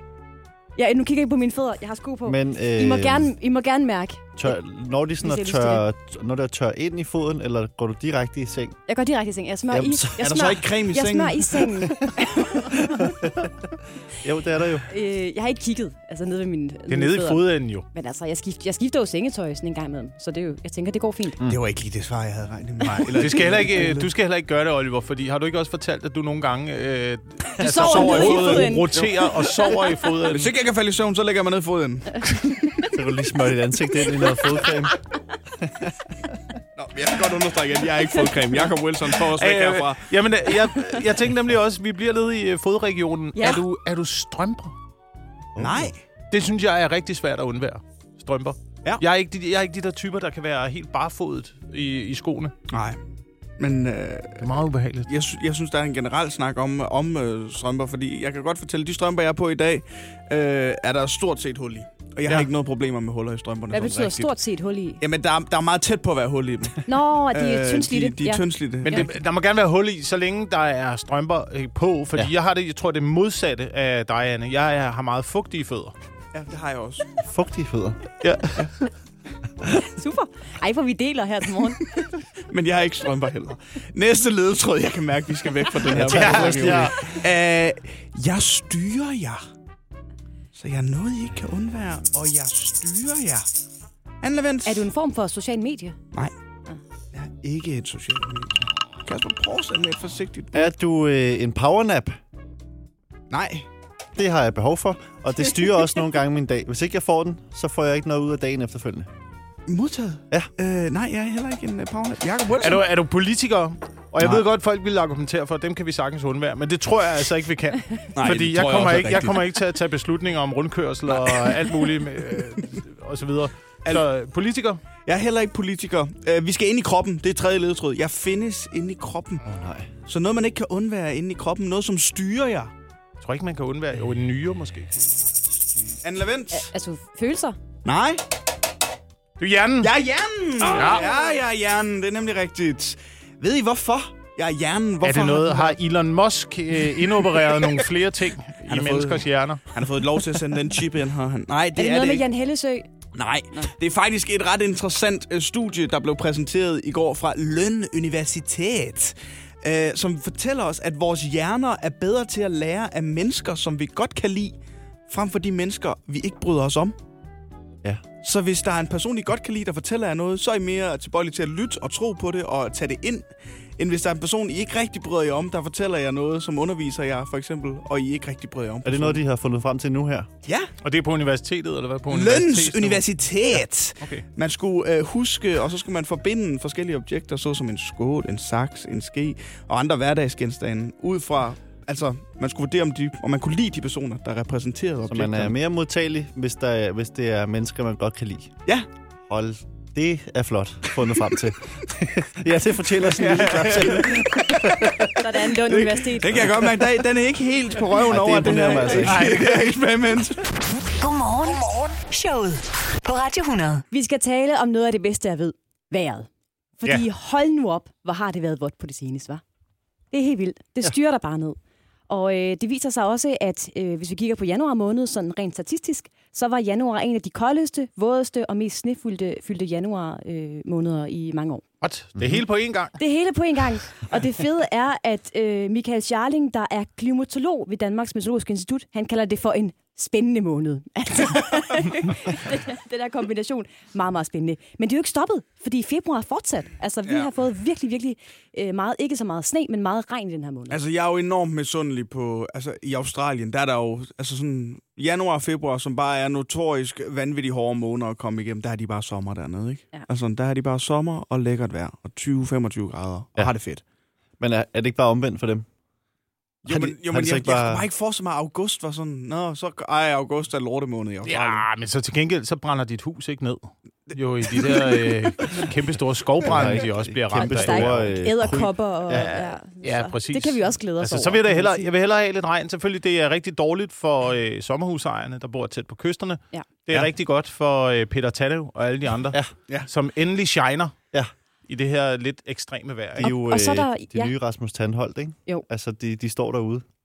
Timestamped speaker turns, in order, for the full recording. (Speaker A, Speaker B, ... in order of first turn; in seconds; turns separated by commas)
Speaker A: 0.8-4.5, Speaker B: 2.2-3.3, Speaker B: 4.4-8.8, Speaker A: 5.2-5.8, Speaker A: 8.9-13.1, Speaker B: 9.7-10.3, Speaker C: 10.2-11.8, Speaker B: 12.9-14.9, Speaker A: 14.9-21.4, Speaker D: 16.9-17.9, Speaker C: 21.5-24.1, Speaker D: 22.9-30.5, Speaker A: 27.6-29.0, Speaker C: 27.8-29.8, Speaker C: 30.3-32.3, Speaker B: 32.8-35.0, Speaker B: 35.6-36.3, Speaker C: 36.8-40.0, Speaker D: 39.3-44.7, Speaker A: 43.4-43.6, Speaker B: 45.6-45.9, Speaker C: 45.6-46.0, Speaker D: 46.3-52.5, Speaker C: 52.7-53.0, Speaker C: 53.6-54.5, Speaker D: 54.4-55.1, Speaker C: 55.1-64.3, Speaker D: 62.3-62.5, Speaker A: 63.7-65.0, Speaker C: 65.0-69.1, Speaker A: 66.8-69.1, Speaker D: 68.8-75.9, Speaker C: 76.3-77.1, Speaker B: 77.2-78.0, Speaker D: 78.2-78.7, Speaker A: 79.6-82.2, Speaker C: 82.5-89.4, Speaker B: 85.9-87.0, Speaker D: 86.0-87.1, Speaker C: 90.5-93.5, Speaker C: 94.2-94.9, Speaker A: 94.7-96.0, Speaker C: 97.1-100.7, Speaker B: 100.5-102.2, Speaker C: 103.3-103.7, Speaker B: 104.2-109.1, Speaker C: 109.7-112.8, Speaker D: 112.6-124.8, Speaker C: 118.1-119.4, Speaker C: 121.1-121.8, Speaker C: 125.0-129.4, Speaker B: 129.4-129.9, Speaker C: 130.1-132.7, Speaker D: 133.2-135.0, Speaker C: 136.0-136.7, Speaker A: 136.5-137.6, Speaker C: 137.8-138.2, Speaker D: 139.4-139.9, Speaker C: 139.8-145.8, Speaker D: 140.6-141.1, Speaker D: 145.0-149.7, Speaker C: 147.2-147.8, Speaker C: 148.7-152.3, Speaker A: 151.8-152.9, Speaker C: 153.1-164.6, Speaker C: 165.1-167.0, Speaker C: 168.2-173.3, Speaker C: 173.8-179.2, Speaker B: 178.8-180.3, Speaker C: 180.4-180.7, Speaker D: 180.8-183.1, Speaker C: 182.1-195.6, Speaker B: 195.1-198.5, Speaker B: 199.3-205.3, Speaker C: 203.1-210.5, Speaker A: 205.2-206.5, Speaker B: 208.0-209.3, Speaker D: 209.0-209.7, Speaker E: 211.0-213.8, Speaker A: 213.9-216.3, Speaker A: 216.8-219.4, Speaker A: 220.1-221.6, Speaker A: 222.1-231.6, Speaker D: 231.8-233.0, Speaker B: 232.2-232.4, Speaker A: 233.0-250.8, Speaker C: 247.1-247.3, Speaker C: 250.7-263.8, Speaker B: 264.4-265.7, Speaker C: 266.6-271.6, Speaker B: 266.7-267.9, Speaker D: 271.2-278.3, Speaker C: 274.1-275.1, Speaker B: 276.4-279.3, Speaker A: 277.4-281.9, Speaker D: 279.1-290.9, Speaker D: 291.7-293.4, Speaker B: 293.2-296.8, Speaker A: 293.2-294.4